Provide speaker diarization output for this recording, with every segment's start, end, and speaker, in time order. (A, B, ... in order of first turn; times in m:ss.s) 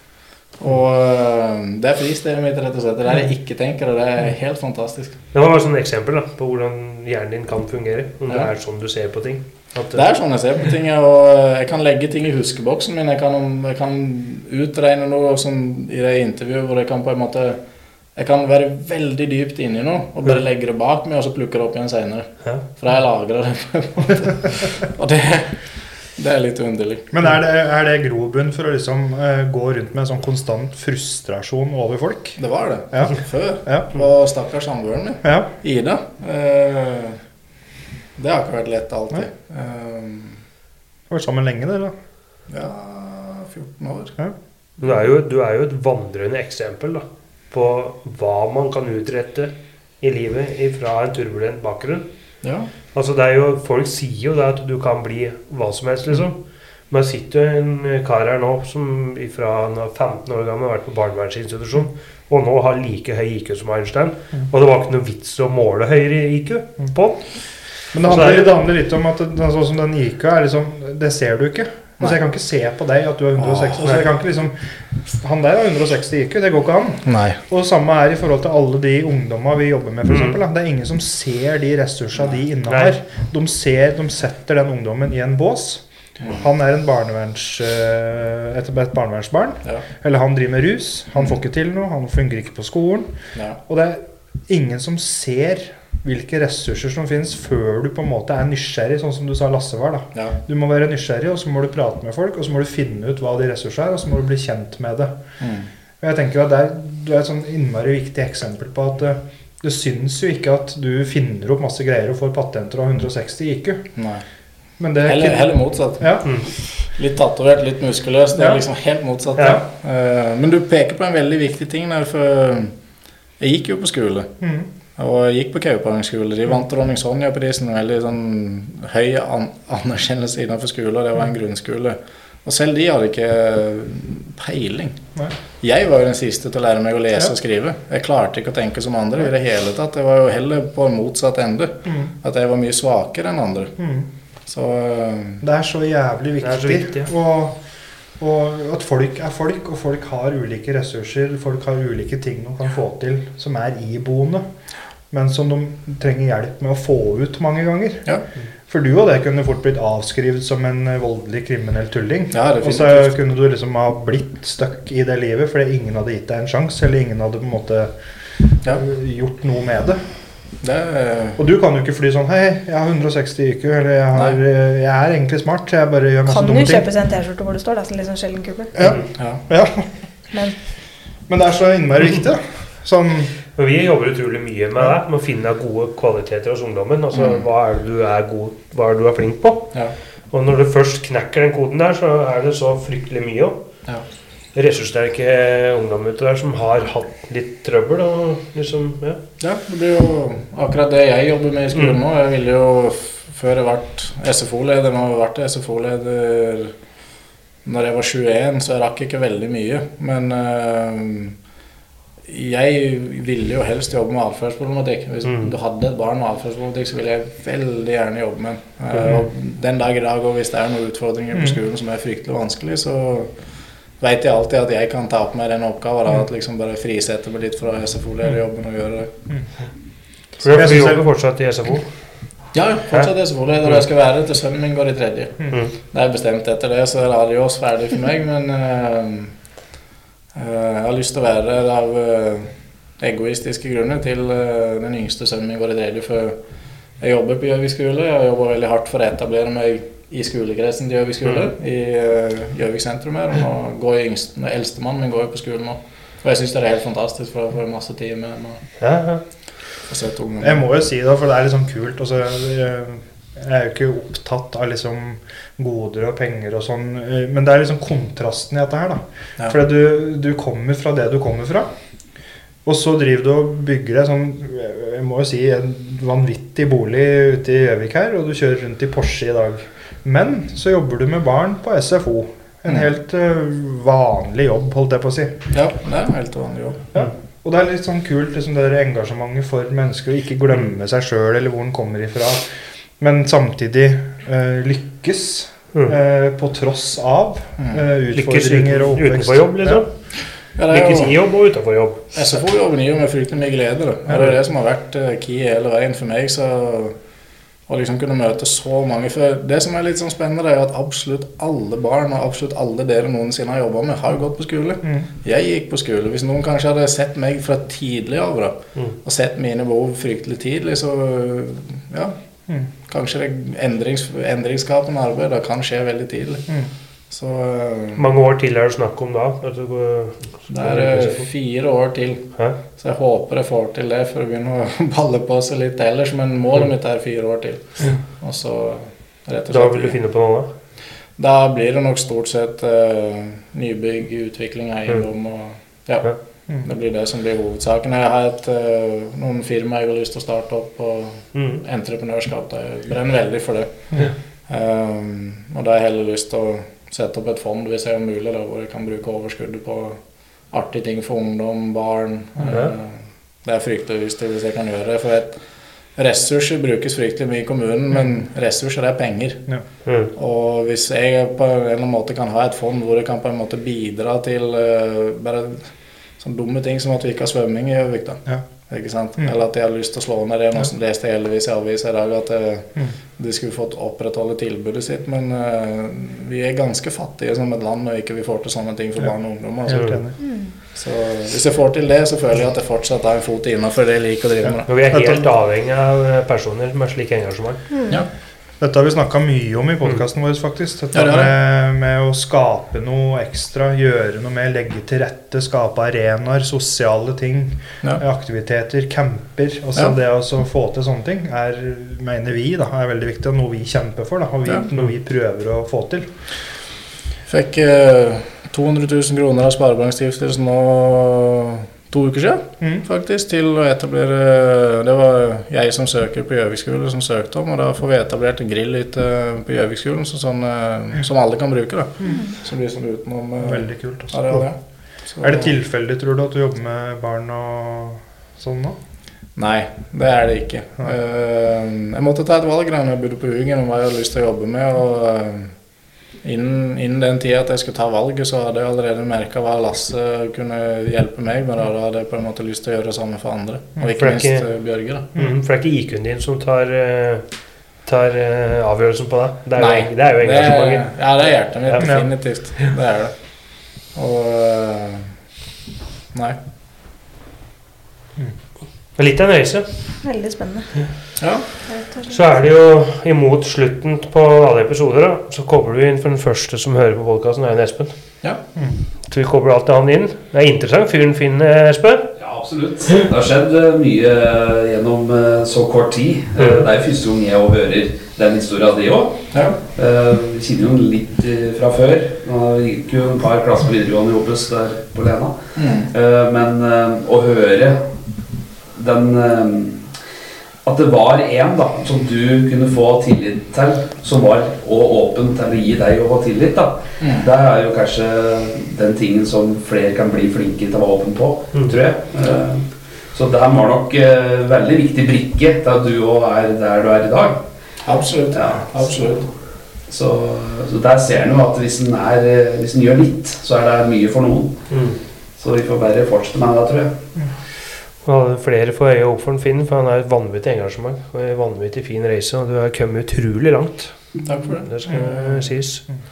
0:00.6-0:05.2 A
0:05.3-0:10.0 B
0:09.9-0:17.6 A
0:18.2-0:27.1 A
0:27.1-0:32.4 C
0:32.4-0:37.2 A
0:32.9-0:33.9 C
0:35.2-0:35.5 C
0:38.2-0:40.4 A
0:41.1-0:42.0 C
0:42.5-0:44.2 A
0:44.8-0:52.1 B
0:52.4-0:52.7 A
0:52.9-1:08.6 B
1:07.9-1:33.1 C
1:13.4-1:14.0 A
1:17.1-1:17.4 A
1:20.1-1:20.4 B
1:22.7-1:23.0 B
1:26.2-1:26.4 A
1:33.7-1:45.2 C
1:45.4-1:45.7 A
1:46.0-1:53.9 C
1:54.0-1:54.2 A
1:54.8-1:56.3 C
1:55.0-2:02.7 A
2:03.4-2:04.4 A
2:04.4-2:04.7 C
2:05.0-2:15.0 A
2:15.6-2:23.8 A
2:21.9-2:22.1 C
2:23.8-2:24.1 C
2:24.5-2:25.4 A
2:25.4-2:27.6 C
2:26.4-2:27.1 B
2:28.2-2:34.5 C
2:35.1-2:38.0 C
2:38.7-2:50.2 C
2:42.3-2:43.1 A
2:50.6-2:51.4 A
2:51.4-2:56.9 C
2:56.3-2:58.7 D
2:58.8-2:59.9 C
2:59.2-2:59.4 A
3:01.3-3:03.3 C
3:03.6-3:13.6 B
3:07.1-3:07.4 A
3:14.5-3:19.2 B
3:19.4-3:26.7 A
3:21.7-3:22.0 B
3:27.6-3:31.4 A
3:32.3-3:43.3 A
3:35.2-3:35.5 B
3:44.0-3:49.1 A
3:50.4-3:51.9 B
3:50.5-3:51.0 C
3:52.5-3:59.4 A
4:00.4-4:06.4 A
4:07.0-4:18.6 A
4:18.8-4:19.2 B
4:19.9-4:20.6 A
4:20.4-4:31.7 C
4:32.6-4:45.5 C
4:45.5-4:46.8 A
4:46.9-4:59.8 C
4:58.1-4:59.9 B
5:00.6-5:01.2 A
5:00.7-5:02.0 B
5:02.1-5:07.0 A
5:07.7-5:22.2 A
5:14.8-5:15.1 C
5:22.7-5:26.5 A
5:27.1-5:28.1 A
5:28.0-5:31.3 B
5:30.5-5:40.0 A
5:39.5-5:40.5 B
5:41.2-6:05.4 A
5:51.3-5:51.6 B
6:02.5-6:02.7 B
6:06.0-6:30.1 A
6:09.9-6:10.1 B
6:29.6-6:30.2 C
6:29.7-6:30.0 B
6:30.2-6:30.5 D
6:30.7-6:34.7 A
6:34.4-6:35.3 C
6:34.7-6:37.7 B
6:37.7-6:38.0 D
6:38.6-6:56.1 C
6:40.9-6:41.3 A
6:57.3-7:15.5 A
7:12.0-7:12.3 C
7:13.4-7:14.5 C
7:15.2-7:18.8 C
7:19.4-7:25.6 A
7:26.2-7:35.1 A
7:34.0-7:34.5 B
7:35.2-7:41.9 B
7:39.6-7:45.1 A
7:41.8-7:42.1 C
7:46.1-7:46.4 A
7:49.0-7:50.0 B
7:50.0-7:50.9 D
7:51.2-7:51.5 A
7:51.7-7:52.4 D
7:52.1-7:58.0 B
7:59.0-8:02.1 B
8:02.2-8:18.0 E
8:06.4-8:06.7 B
8:09.3-8:09.6 A
8:15.6-8:15.9 A
8:18.7-8:20.0 E
8:20.6-8:37.5 E
8:27.0-8:27.3 A
8:37.8-8:39.3 A
8:38.3-8:38.8 E
8:39.9-8:47.0 E
8:44.7-8:45.0 B
8:48.0-8:55.9 B
8:54.2-8:54.8 A
8:54.9-8:55.5 C